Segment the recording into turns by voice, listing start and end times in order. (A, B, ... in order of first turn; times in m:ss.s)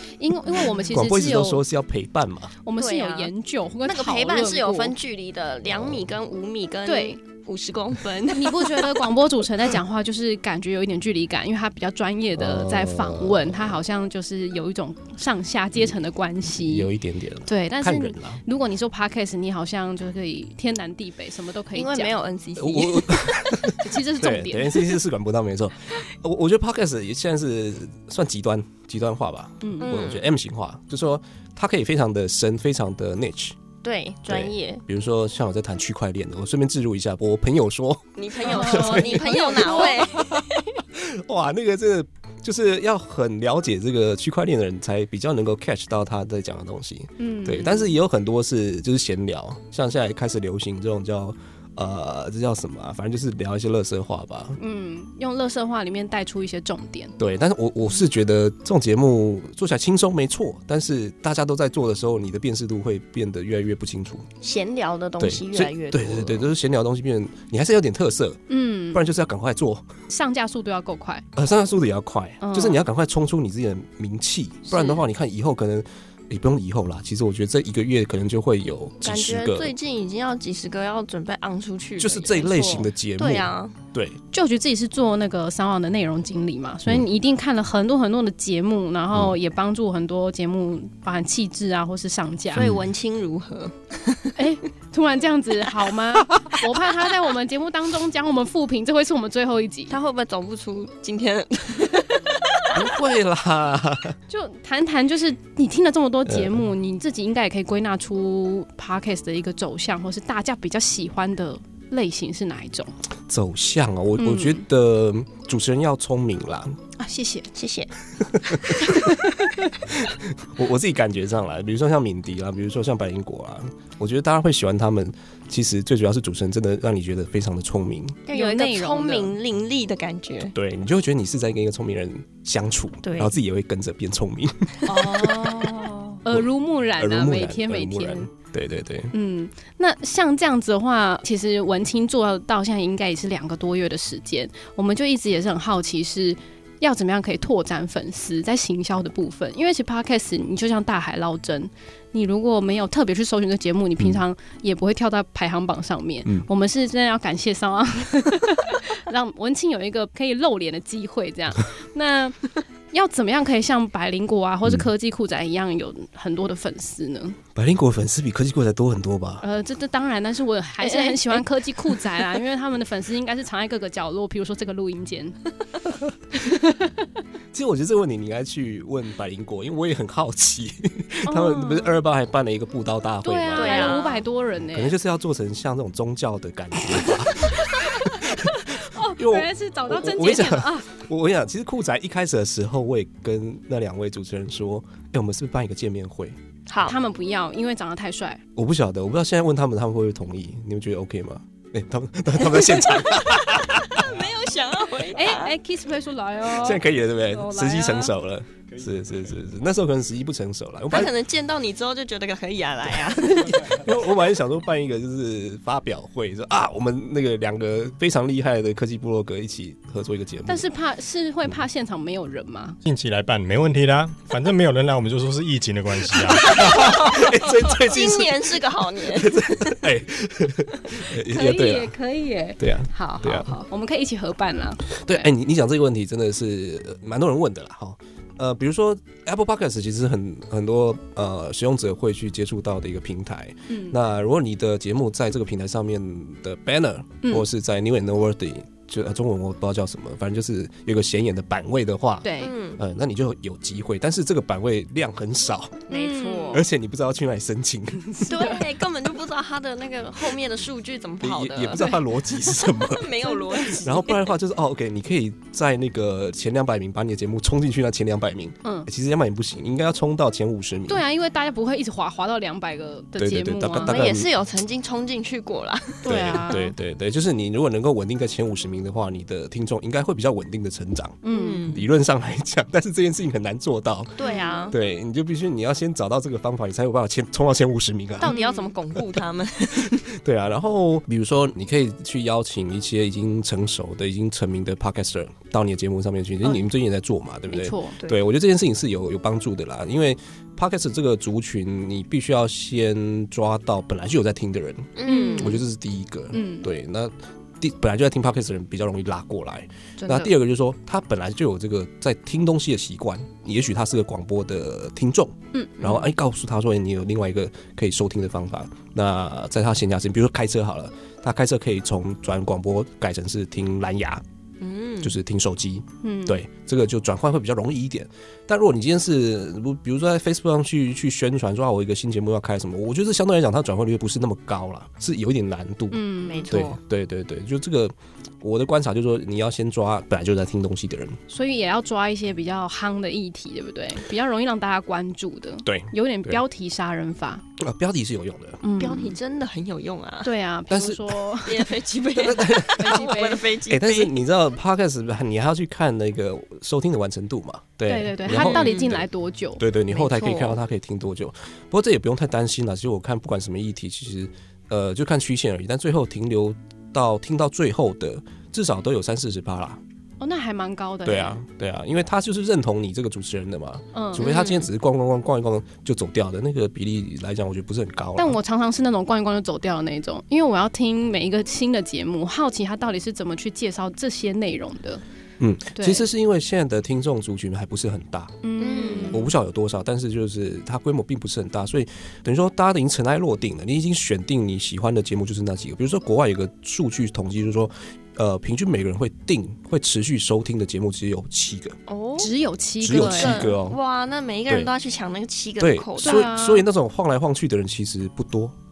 0:00.2-0:01.6 A
0:00.6-0:02.5 B
0:02.6-0:04.9 A
0:02.8-0:03.3 C
0:03.8-0:09.1 C
0:05.7-0:06.0 B
0:06.9-0:07.2 A
0:08.3-0:16.9 A
0:12.4-0:13.8 B
0:16.5-0:18.4 B
0:17.4-0:22.1 A
0:21.7-0:23.5 C
0:22.6-0:33.6 B
0:23.7-0:25.0 A
0:29.6-0:29.9 A
0:29.8-0:30.2 C
0:33.8-0:34.8 C
0:34.3-0:54.6 B
0:38.2-0:40.6 C
0:38.4-0:40.1 A
0:47.2-0:47.9 A
0:54.6-0:57.1 A
0:57.2-1:04.3 B
1:04.4-1:06.5 C
1:05.2-1:08.4 B
1:08.5-1:09.0 A
1:08.9-1:09.9 B
1:10.1-1:11.2 A
1:11.3-1:19.7 B
1:12.4-1:12.8 A
1:14.7-1:15.0 C
1:19.0-1:23.8 C
1:22.0-1:24.2 B
1:24.3-1:32.6 A
1:32.5-1:34.4 C
1:32.6-1:32.8 B
1:34.4-1:39.9 A
1:39.9-1:42.9 C
1:42.7-1:44.2 B
1:44.3-1:52.9 A
1:46.3-1:46.6 B
1:53.3-1:56.8 B
1:54.2-1:54.6 A
1:57.0-1:57.5 A
1:57.5-1:57.9 C
1:58.2-1:58.9 B
1:58.9-1:59.5 A
1:59.8-2:08.2 B
2:08.3-2:10.5 C
2:08.3-2:09.3 A
2:10.5-2:15.7 B
2:13.0-2:13.3 C
2:14.8-2:18.3 A
2:16.3-2:19.1 B
2:19.1-2:47.4 A
2:47.6-2:49.4 B
2:49.4-2:55.4 A
2:50.8-2:51.4 C
2:56.3-2:57.0 A
2:57.5-3:04.0 B
3:01.2-3:02.0 A
3:03.2-3:04.9 A
3:03.6-3:04.2 C
3:04.7-3:16.4 B
3:07.5-3:10.9 A
3:16.7-3:17.0 C
3:16.8-3:18.4 A
3:18.6-3:24.1 B
3:22.8-3:25.6 C
3:25.1-3:28.1 A
3:26.5-3:31.1 B
3:30.9-3:33.8 C
3:33.4-3:40.6 B
3:40.4-3:42.8 A
3:42.8-3:47.1 D
3:46.4-3:51.9 B
3:46.5-3:49.8 C
3:51.2-3:55.3 A
3:52.6-3:53.6 B
3:54.9-4:15.9 B
4:03.7-4:04.0 A
4:12.2-4:12.5 A
4:12.4-4:12.8 C
4:15.9-4:16.6 C
4:15.9-4:16.6 A
4:16.5-4:18.6 B
4:18.2-4:18.6 A
4:18.3-4:24.3 C
4:21.2-4:31.0 B
4:30.9-4:34.0 A
4:33.2-4:34.3 B
4:33.8-4:36.6 C
4:36.0-4:36.7 A
4:36.1-4:44.2 B
4:41.2-4:41.7 A
4:41.3-4:41.8 C
4:44.2-4:44.7 C
4:44.2-4:44.7 A
4:44.7-4:48.4 B
4:48.2-4:50.1 C
4:48.2-4:48.7 A
4:48.9-4:49.2 B
4:49.7-5:24.2 B
4:57.5-4:58.0 A
5:05.0-5:05.6 C
5:05.1-5:05.6 A
5:06.3-5:06.7 A
5:10.0-5:10.3 A
5:15.5-5:15.9 A
5:24.6-5:25.1 C
5:25.0-5:41.2 B
5:26.0-5:26.4 A
5:35.9-5:36.5 A
5:36.2-5:36.8 C
5:41.3-5:47.4 A
5:45.6-5:46.4 B
5:47.6-5:48.6 B
5:48.6-5:49.2 A
5:48.8-5:50.3 C
5:50.2-5:51.7 A
5:50.7-5:51.3 B
5:51.4-5:54.2 C
5:52.2-5:53.0 B
5:52.8-5:53.4 A
5:53.7-5:59.0 B
5:57.9-5:59.6 A
5:58.3-5:59.0 C
5:59.6-6:09.8 B
5:59.9-6:00.6 C
6:10.2-6:11.4 A
6:11.1-6:18.4 B
6:13.9-6:14.3 A
6:14.2-6:14.7 C
6:18.2-6:25.0 A
6:25.4-6:28.4 B
6:25.7-6:26.1 A
6:28.4-6:29.3 A
6:28.6-6:29.3 C
6:29.0-6:41.8 B
6:41.9-6:42.3 C
6:42.2-6:43.5 A
6:42.8-6:43.8 B
6:42.9-6:46.3 C
6:45.6-6:48.6 B
6:46.0-6:46.6 A